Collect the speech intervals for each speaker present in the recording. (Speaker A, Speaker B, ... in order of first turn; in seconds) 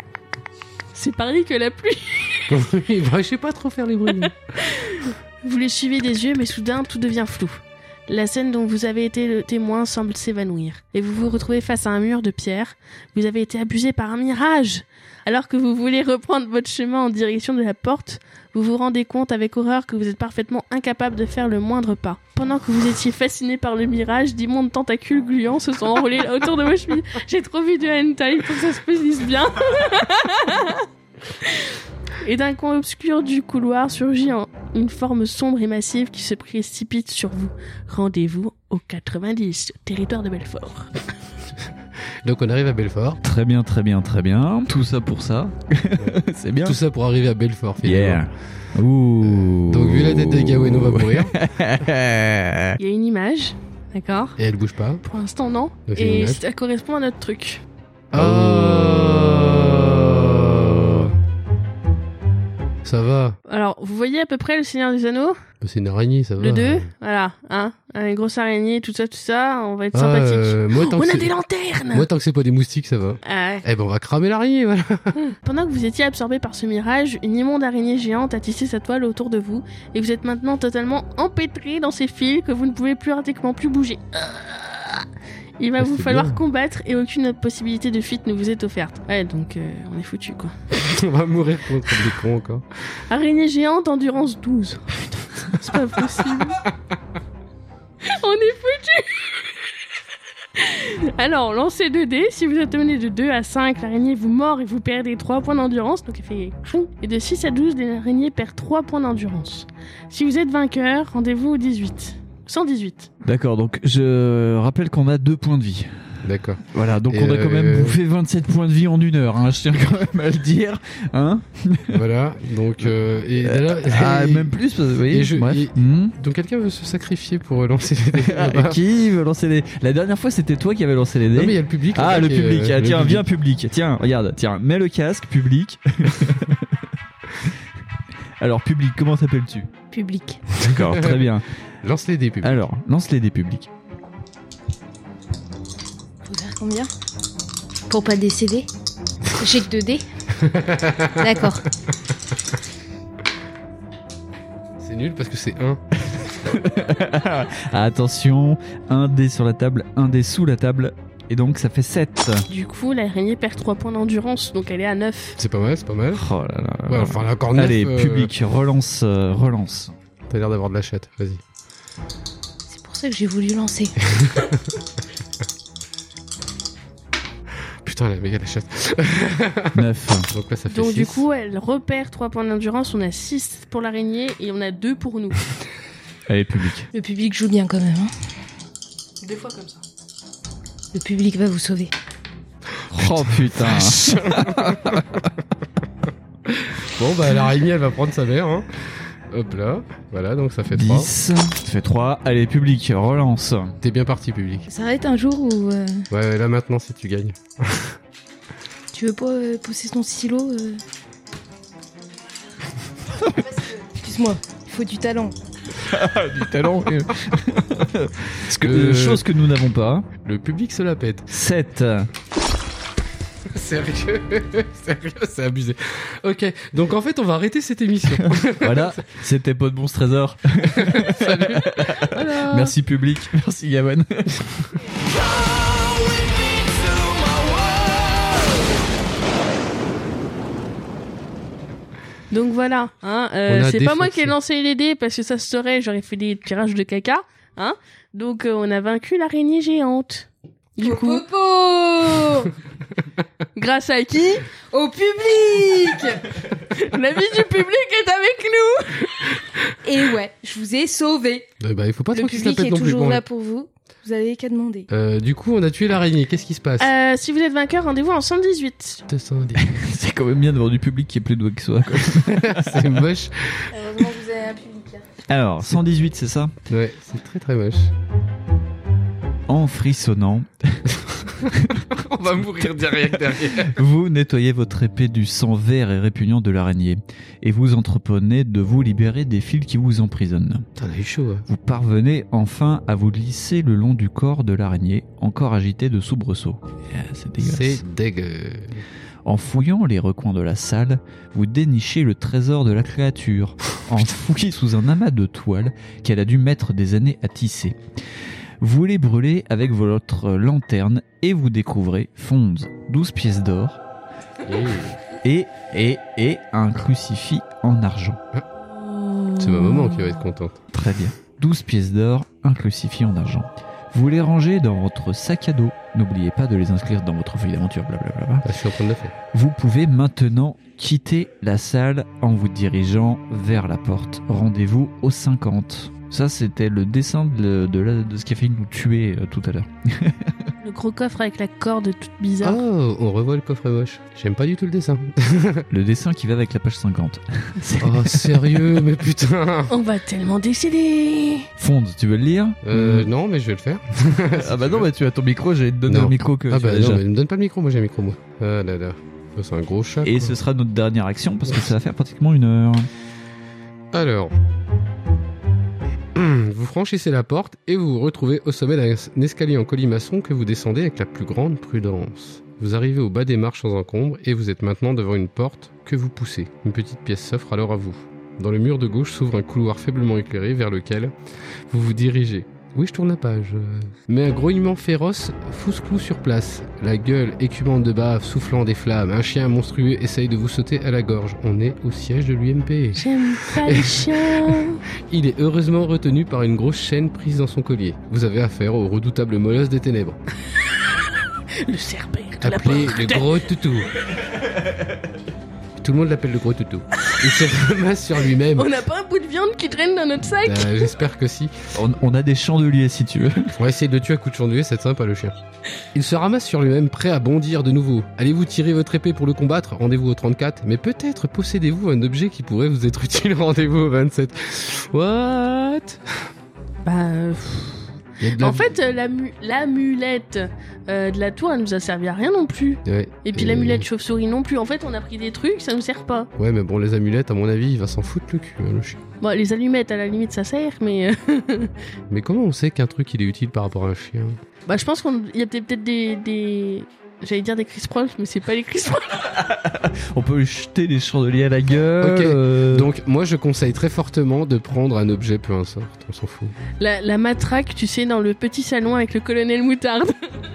Speaker A: 0.9-2.6, 4.2-30.9, 31.4-40.9, 52.8-54.4, 55.0-57.6, 63.5-65.4, 66.4-72.1, 73.2-73.7, 75.3-85.0, 85.6-90.5, 93.1-96.6, 98.0-99.5, 100.6-113.1, 162.5-165.4, 180.7-185.4, 189.2-189.8, 242.3-251.2, 253.6-254.4, 256.7-259.3, 266.8-269.1, 340.6-342.6, 349.7-351.5, 393.0-394.8, 401.6-403.4, 408.6-410.9, 426.8-436.3, 439.2-441.8, 444.7-449.3, 456.8-460.3
Speaker B: 2.5-4.3, 42.2-43.2, 46.0-48.2, 49.3-51.4, 54.4-55.0, 55.9-56.4, 58.1-61.1, 62.8-63.4, 65.6-66.9, 69.9-71.3, 71.9-75.2, 85.8-86.4, 90.7-92.7, 116.2-118.0, 121.9-124.5, 125.1-128.8, 131.3-133.2, 140.6-141.3, 141.8-142.6, 150.4-151.3, 154.8-155.8, 165.4-166.2, 166.9-168.3, 170.3-171.4, 174.1-174.6, 177.8-181.2, 192.9-195.2, 196.5-201.1, 203.8-204.7, 206.1-207.9, 218.6-219.2, 220.2-221.3, 223.5-229.0, 230.7-232.7, 243.5-244.3, 261.6-263.2, 264.9-266.9, 269.1-269.6, 272.1-273.9, 276.7-277.9, 281.4-283.8, 290.8-291.4, 297.4-298.8, 314.5-315.0, 319.4-320.6, 328.4-329.1, 342.4-345.7, 347.8-349.7, 352.6-354.9, 355.9-360.4, 363.9-364.3, 366.1-381.1, 381.7-400.2, 402.4-403.9, 405.8-408.7, 410.4-411.6, 413.6-415.4, 415.9-426.0, 428.2-428.7, 432.9-433.9, 436.4-439.0, 442.1-444.4, 452.0-456.6
Speaker C: 43.2-46.8, 47.8-52.8, 58.1-61.1, 113.2-122.0, 123.4-126.2, 128.2-136.8, 138.4-139.7, 140.5-141.5, 142.4-143.7, 156.2-162.5, 166.1-169.9, 179.7-180.3, 186.3-186.9, 192.9-195.1, 200.7-203.7, 215.8-220.1, 221.3-222.1, 228.2-234.7, 269.6-273.1, 275.3-276.6, 279.5-290.7, 291.5-297.8, 299.2-307.8, 308.6-313.8, 315.2-318.2, 320.7-328.6, 329.3-340.3, 345.7-348.8, 351.6-353.1, 354.3-357.0, 360.0-362.9, 411.7-413.5, 449.3-452.9
Speaker D: 139.9-140.4, 146.2-146.9, 147.9-148.7, 149.4-150.0, 151.2-151.6, 172.7-173.9, 186.9-188.1, 190.9-191.9, 204.7-206.1, 208.9-210.8, 213.4-215.3, 250.8-252.5, 254.7-256.2, 259.9-261.5, 262.1-264.9, 273.7-275.1